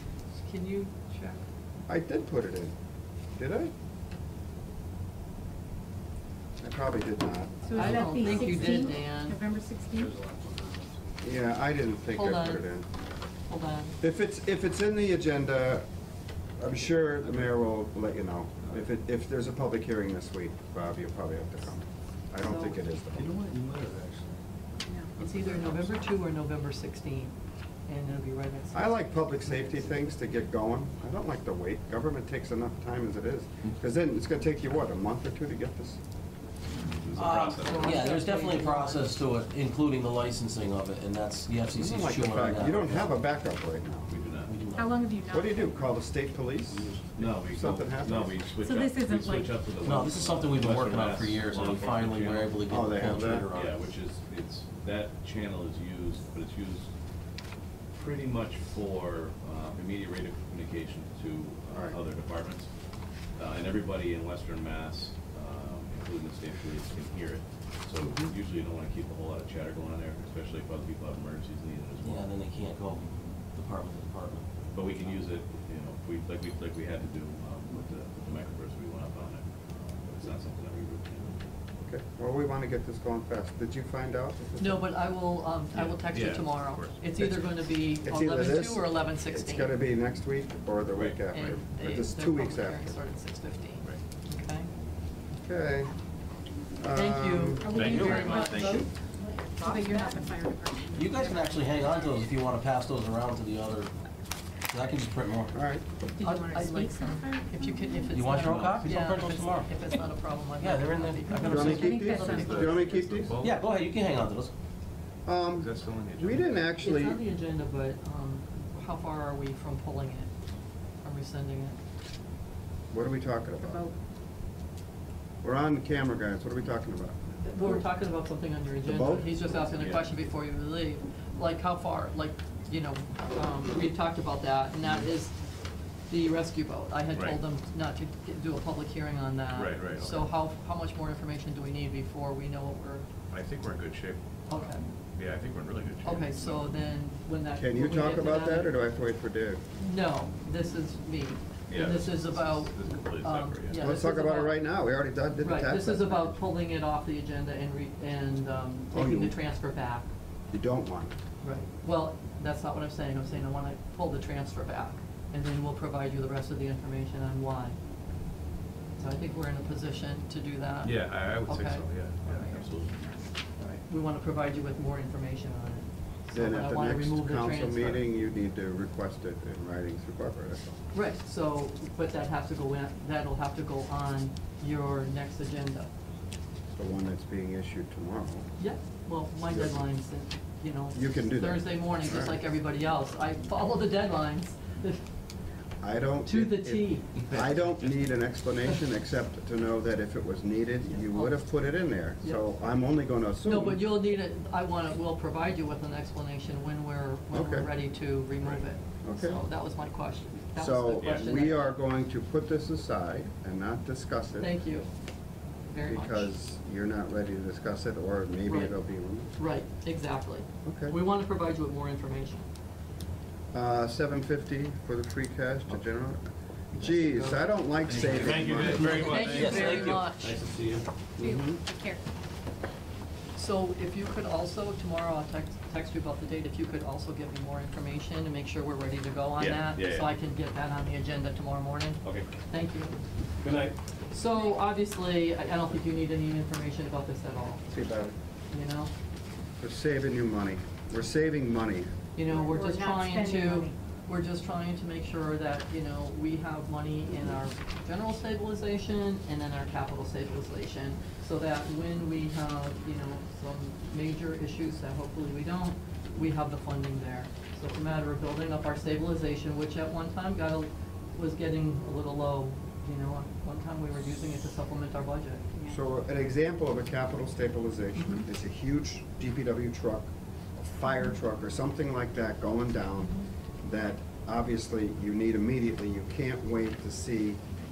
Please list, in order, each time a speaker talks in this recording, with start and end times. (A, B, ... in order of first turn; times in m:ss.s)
0:00.4-0:01.4 A
0:01.9-0:02.7 B
0:03.4-0:03.7 B
0:06.6-0:08.5 B
0:07.7-0:09.4 A
0:07.7-0:10.1 C
0:08.4-0:08.8 D
0:09.9-0:11.0 D
0:11.2-0:12.9 B
0:12.1-0:12.7 A
0:13.5-0:14.0 A
0:14.0-0:15.9 B
0:16.6-0:23.4 B
0:22.4-0:22.8 A
0:23.1-0:24.4 D
0:25.2-0:27.3 A
0:25.2-0:26.0 D
0:27.9-0:30.0 A
0:28.7-0:36.0 B
0:36.8-0:38.1 E
0:37.1-0:43.2 F
0:37.6-0:39.1 A
0:41.7-0:44.1 B
0:44.1-0:44.5 E
0:44.4-0:45.0 F
0:44.7-0:45.8 C
0:45.3-0:46.9 B
0:46.7-0:47.4 D
0:47.1-0:56.9 E
0:47.4-0:48.5 B
0:48.6-0:49.5 C
0:49.8-0:53.9 F
0:52.7-0:53.5 B
0:57.9-1:02.7 E
1:01.7-1:02.0 B
1:03.4-1:12.3 E
1:12.0-1:15.0 F
1:14.7-1:21.5 E
1:21.9-1:24.8 B
1:24.6-1:29.8 A
1:25.7-1:27.0 E
1:28.0-1:33.0 B
1:30.9-1:31.2 E
1:31.3-1:34.7 A
1:35.4-1:35.9 B
1:36.8-1:38.1 B
1:36.9-1:38.9 A
1:37.6-1:38.9 C
1:37.7-1:38.9 E
1:37.9-1:38.3 F
1:39.5-1:40.2 A
1:39.5-1:41.4 C
1:40.9-1:43.9 F
1:44.7-1:45.6 F
1:45.5-1:45.8 B
1:46.2-1:48.0 C
1:46.2-1:53.0 A
1:48.1-1:49.7 F
1:48.4-1:49.0 E
1:50.6-1:51.9 F
1:51.4-1:53.4 B
1:51.5-1:52.8 C
1:52.2-1:53.6 E
1:53.4-1:54.5 F
1:55.2-1:57.2 B
1:55.5-1:56.7 E
1:56.8-2:00.3 A
2:01.0-2:01.8 A
2:02.9-2:03.8 B
2:05.4-2:07.2 B
2:07.4-2:15.3 A
2:08.8-2:09.5 B
2:09.7-2:10.1 E
2:16.1-2:23.1 A
2:17.1-2:17.4 E
2:19.5-2:20.3 E
2:23.3-2:26.7 E
2:24.5-2:24.8 A
2:26.0-2:28.7 A
2:27.5-2:29.6 B
2:29.8-2:34.6 A
2:31.7-2:33.9 E
2:33.7-2:36.4 B
2:35.4-2:40.1 A
2:38.9-2:39.3 B
2:40.5-2:41.1 B
2:41.4-2:47.8 A
2:49.0-2:52.6 A
2:50.8-2:53.2 E
2:53.6-2:58.1 A
2:56.3-3:00.8 B
3:00.9-3:05.9 A
3:06.8-3:08.5 B
3:08.6-3:15.0 A
3:09.5-3:09.8 B
3:10.9-3:12.4 B
3:15.8-3:23.8 B
3:16.2-3:17.3 A
3:17.3-3:17.7 E
3:20.8-3:22.4 A
3:23.4-3:31.8 A
3:27.3-3:27.7 B
3:29.0-3:29.4 B
3:30.6-3:34.5 B
3:34.4-3:34.9 A
3:35.6-3:36.3 A
3:35.8-3:39.3 B
3:38.4-3:38.8 A
3:39.3-3:42.5 A
3:40.6-3:40.9 B
3:43.5-3:46.2 B
3:46.7-3:47.6 A
3:46.7-3:49.0 B
3:47.8-3:50.0 E
3:47.9-3:50.9 F
3:48.4-3:50.4 A
3:51.2-3:51.6 B
3:51.2-3:52.0 C
3:53.3-4:03.0 A
3:59.4-4:00.1 E
4:02.0-4:02.3 E
4:03.4-4:03.8 E
4:04.1-4:07.7 A
4:07.7-4:08.1 B
4:08.5-4:08.9 A
4:09.6-4:11.9 B
4:12.2-4:35.6 A
4:12.3-4:13.7 C
4:35.7-4:47.4 B
4:38.0-4:38.2 A